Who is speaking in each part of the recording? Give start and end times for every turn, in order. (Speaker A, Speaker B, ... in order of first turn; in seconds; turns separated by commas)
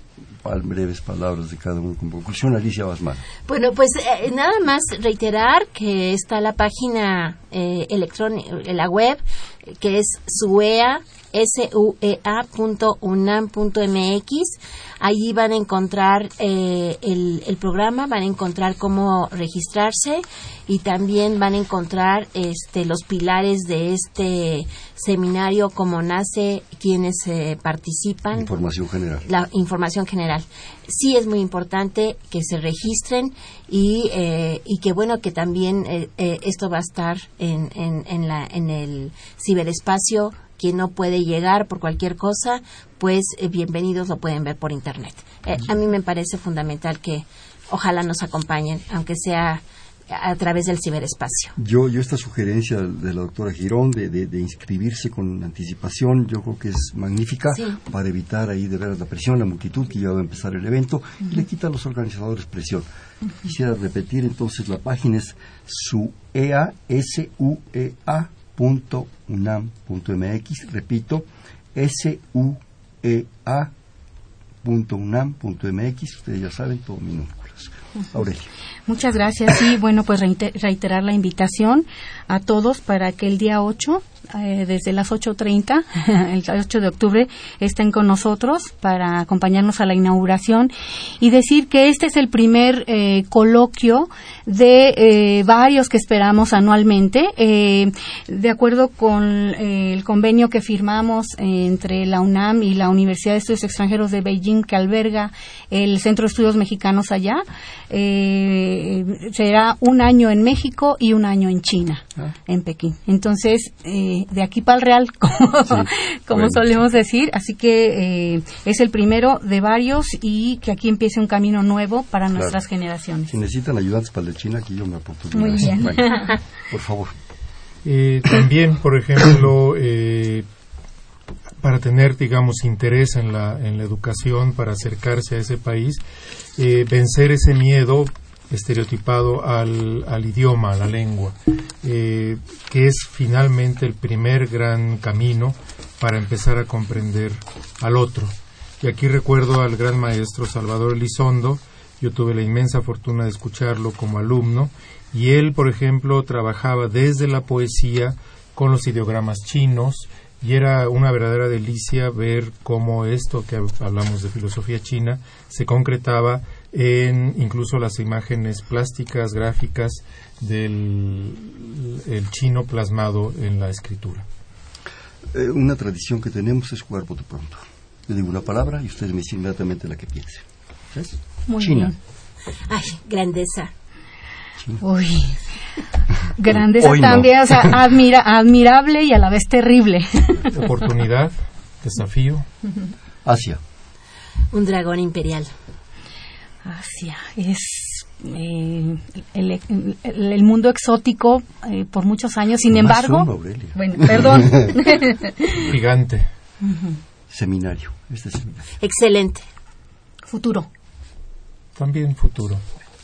Speaker A: 0.4-3.3, Speaker B: 3.5-28.5, Speaker A: 28.3-29.3, Speaker B: 29.3-51.6, Speaker A: 51.6-62.9, Speaker A: 63.4-73.7, Speaker A: 74.6-78.5, Speaker C: 78.9-123.4, Speaker A: 115.7-116.6, Speaker A: 122.3-122.6, Speaker A: 123.3-127.1, Speaker C: 125.3-126.3, Speaker D: 127.8-130.5, Speaker D: 131.6-136.0, Speaker D: 136.6-174.3, Speaker A: 175.3-181.9, Speaker C: 181.5-182.0, Speaker B: 182.7-183.7, Speaker C: 184.8-185.4, Speaker C: 186.3-190.5, Speaker A: 186.4-187.8, Speaker D: 190.5-192.5, Speaker A: 193.2-193.6, Speaker B: 194.5-195.5, Speaker C: 196.6-205.5, Speaker A: 202.7-204.9, Speaker D: 205.6-206.3, Speaker C: 206.6-207.0, Speaker A: 207.3-208.7, Speaker B: 208.8-209.5, Speaker C: 210.3-210.7, Speaker D: 211.8-212.6